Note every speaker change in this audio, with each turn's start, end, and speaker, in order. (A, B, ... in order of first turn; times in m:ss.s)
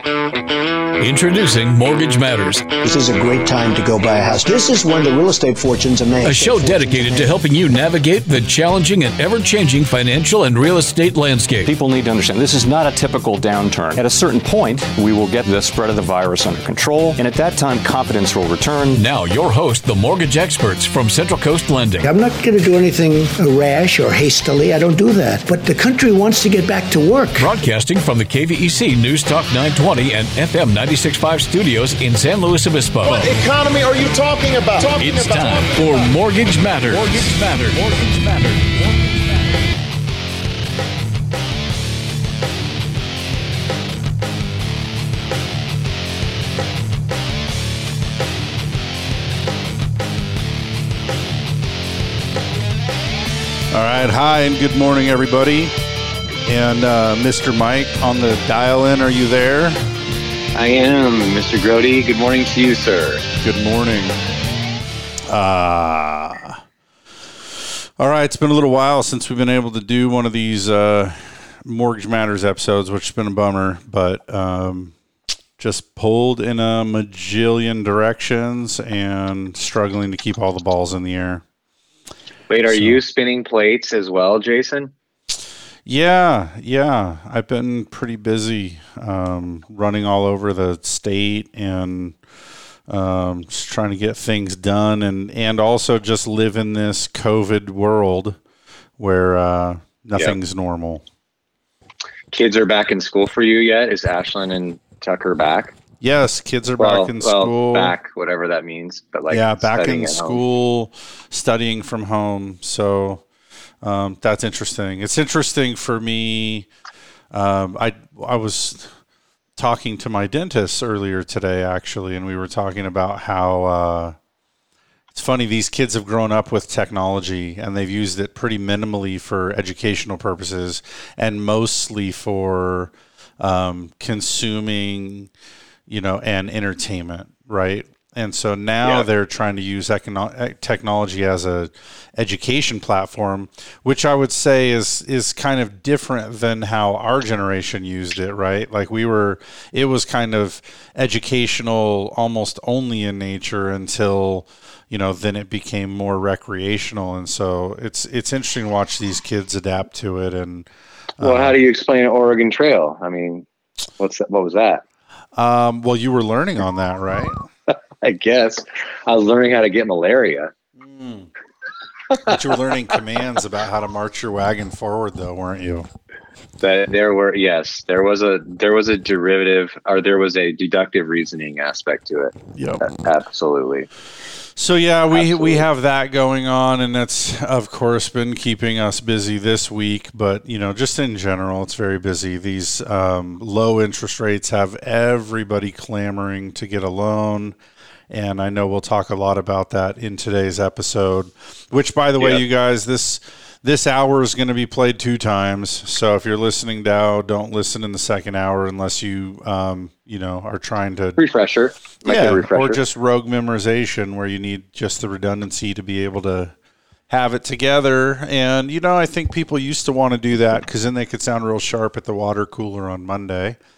0:01.0-0:02.7 A
0:02.8-0:07.4 B
0:06.2-0:11.7 A
0:11.6-0:19.0 C
0:18.9-0:22.1 A
0:22.0-0:27.6 B
0:27.4-0:33.3 A
0:33.0-0:38.4 D
0:34.9-0:38.6 A
0:53.7-0:55.7 E
0:56.5-0:59.8 E
1:00.6-1:03.2 F
1:03.4-1:04.1 E
1:05.3-1:06.4 E
1:08.0-1:11.1 E
1:11.7-1:14.9 E
1:15.6-1:21.4 E
1:22.5-1:24.9 F
1:25.9-1:32.2 E
1:32.9-1:38.4 E
1:39.0-1:41.0 E
1:42.3-1:45.8 F
1:46.0-1:47.9 E
1:46.8-1:50.4 F
1:49.3-1:53.2 E
1:53.8-1:56.7 E
1:57.3-1:58.9 E
1:59.6-2:04.2 E
2:05.1-2:12.9 E
2:13.4-2:15.3 E
2:15.9-2:40.7 E
2:18.8-2:19.1 F
2:41.2-2:43.5 F
2:41.2-2:41.5 E
2:44.0-2:44.8 F
2:45.4-2:47.3 E
2:48.0-2:50.5 F
2:50.8-2:51.3 E
2:52.3-2:55.9 E
2:56.6-3:03.9 F
3:02.6-3:02.9 E
3:04.6-3:17.5 E
3:05.1-3:05.7 F
3:18.1-3:31.2 E
3:22.2-3:22.5 F
3:31.2-3:32.8 F
3:32.1-3:36.5 E
3:37.1-3:43.6 E